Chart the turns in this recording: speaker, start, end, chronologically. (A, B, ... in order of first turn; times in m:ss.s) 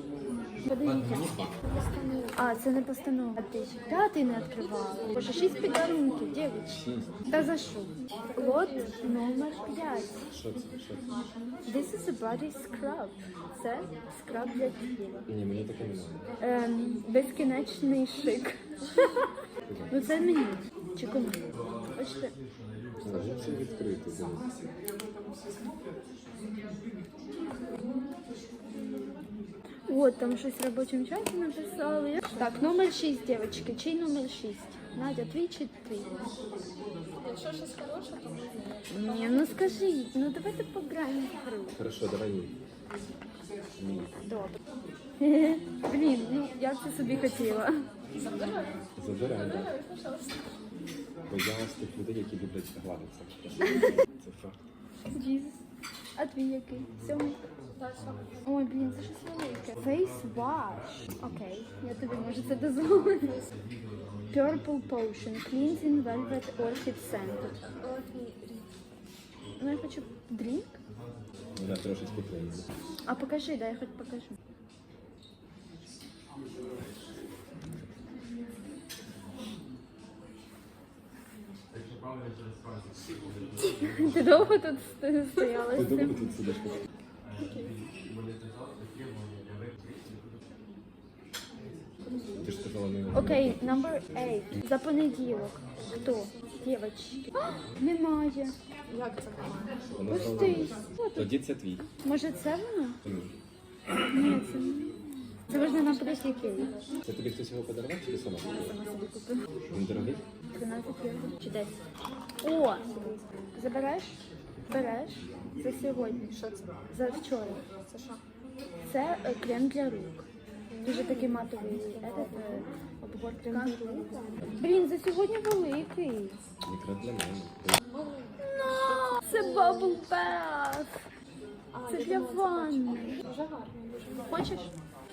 0:00.6-0:01.2 A
0:00.8-0:01.6 B
0:01.6-0:02.5 C
0:02.4-0:06.8 A
0:06.7-0:07.1 B
0:07.3-0:10.3 A
0:08.2-0:09.1 C
0:10.3-0:11.1 B
0:11.6-0:15.2 A
0:15.3-0:16.3 B
0:16.4-0:19.3 A
0:19.7-0:19.9 B
0:19.9-0:21.4 A
0:21.9-0:22.3 A
0:23.0-0:24.5 B
0:29.9-0:36.1 A
0:37.1-0:40.0 C
0:38.9-0:41.8 A
0:41.8-0:42.5 B
0:43.8-0:44.1 B
0:44.2-0:44.5 A
0:45.2-0:47.8 A
0:48.1-0:50.5 C
0:49.0-0:49.7 B
0:51.3-0:54.6 B
0:53.6-0:53.9 A
0:55.1-0:55.6 A
0:56.2-0:57.4 A
0:57.7-0:58.4 C
0:58.4-1:03.4 A
1:04.3-1:07.6 A
1:07.6-1:08.7 C
1:09.6-1:10.7 A
1:11.6-1:12.7 B
1:13.0-1:14.3 A
1:23.6-1:26.2 A
1:25.7-1:26.8 B
1:27.4-1:27.7 C
1:32.0-1:32.5 C
1:32.4-1:34.0 B
1:33.1-1:38.6 A
1:35.8-1:36.6 C
1:38.9-1:39.8 C
1:39.9-1:41.8 B
1:40.1-1:41.3 A
1:41.9-1:43.0 A
1:44.1-1:46.7 A
1:45.5-1:46.9 C
1:47.0-1:48.7 B
1:48.6-1:49.4 A
1:49.7-1:50.2 B
1:50.5-1:51.7 A
1:52.4-1:52.9 A
1:52.8-1:53.2 C
1:53.5-1:56.4 A
1:56.3-1:56.7 C
1:56.9-1:57.6 A
1:57.8-1:58.2 C
1:58.8-2:00.2 A
2:00.7-2:02.6 C
2:00.8-2:06.4 A
2:03.4-2:04.4 C
2:06.6-2:07.8 B
2:07.8-2:10.0 C
2:08.4-2:11.0 A
2:11.7-2:14.5 C
2:11.8-2:13.2 A
2:14.3-2:14.7 A